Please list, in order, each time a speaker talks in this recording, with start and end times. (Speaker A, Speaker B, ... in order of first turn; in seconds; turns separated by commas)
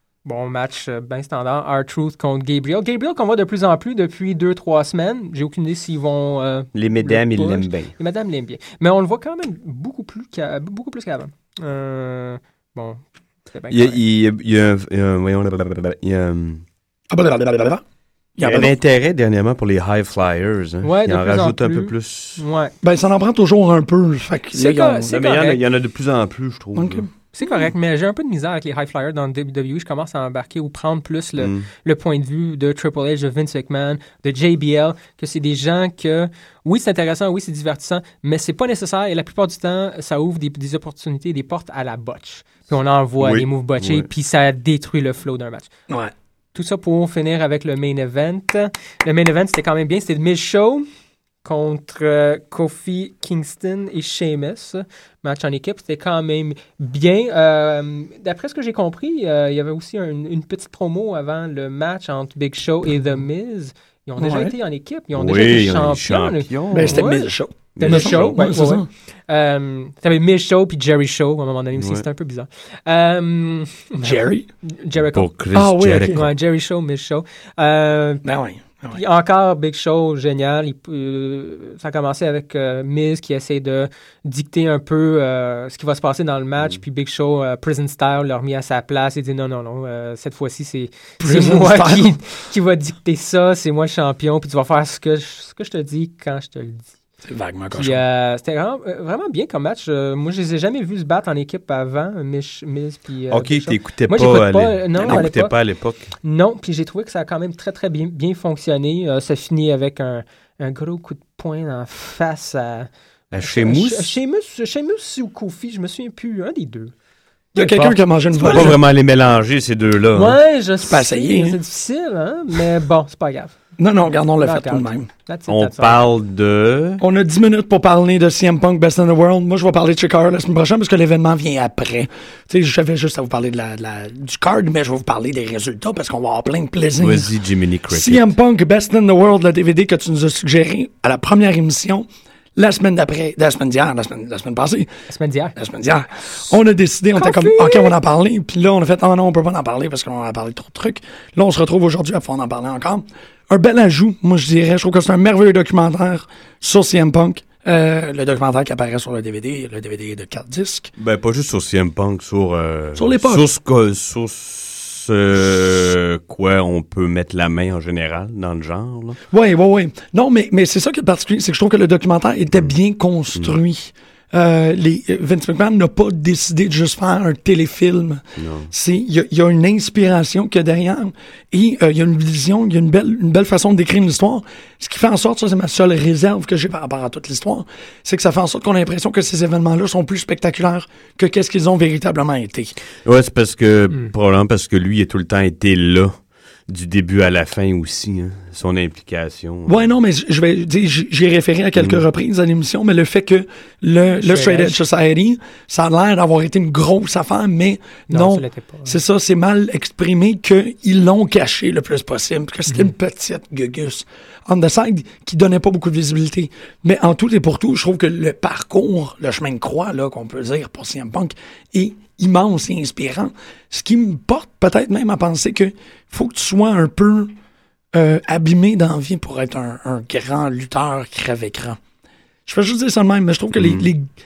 Speaker A: 0.2-14.0, Speaker B: 6.7-7.9, Speaker B: 13.7-16.6, Speaker C: 17.1-17.8, Speaker C: 18.4-18.7, Speaker B: 18.4-22.4, Speaker A: 20.8-22.7, Speaker C: 22.8-25.2, Speaker A: 24.5-25.6, Speaker B: 25.1-27.1, Speaker C: 26.8-27.7, Speaker A: 27.3-45.7, Speaker B: 31.4-31.7, Speaker B: 43.2-44.1, Speaker A: 46.5-50.8, Speaker A: 51.4-75.3, Speaker C: 64.2-64.5, Speaker B: 65.1-67.0, Speaker C: 66.7-68.9, Speaker B: 67.8-68.4, Speaker B: 71.8-72.0, Speaker C: 74.0-74.5, Speaker B: 75.1-76.3, Speaker C: 75.5-76.2, Speaker A: 76.0-78.2, Speaker C: 78.2-79.0, Speaker A: 78.9-96.9, Speaker C: 91.2-92.2, Speaker C: 97.2-98.0, Speaker A: 97.8-105.5, Speaker B: 103.3-106.1, Speaker C: 105.0-105.2, Speaker A: 106.2-112.9, Speaker B: 113.3-114.1, Speaker A: 113.4-116.9, Speaker C: 117.5-118.8, Speaker B: 117.6-120.4, Speaker A: 118.4-118.7, Speaker A: 120.1-123.6, Speaker C: 120.8-121.6, Speaker C: 123.8-125.1, Speaker A: 124.4-126.1, Speaker B: 125.5-127.0, Speaker C: 127.0-137.3, Speaker B: 137.0-138.3, Speaker C: 137.9-144.9, Speaker A: 145.1-145.6, Speaker C: 145.6-160.9, Speaker A: 147.2-147.9, Speaker B: 161.0-169.2, Speaker C: 162.9-163.4, Speaker C: 169.3-192.8, Speaker B: 178.4-178.7, Speaker B: 193.0-196.1, Speaker B: 196.7-199.9, Speaker C: 199.7-227.3, Speaker B: 201.8-202.0, Speaker A: 204.2-204.8, Speaker A: 208.1-209.0, Speaker C: 227.9-231.8, Speaker C: 232.4-234.1, Speaker B: 233.6-233.9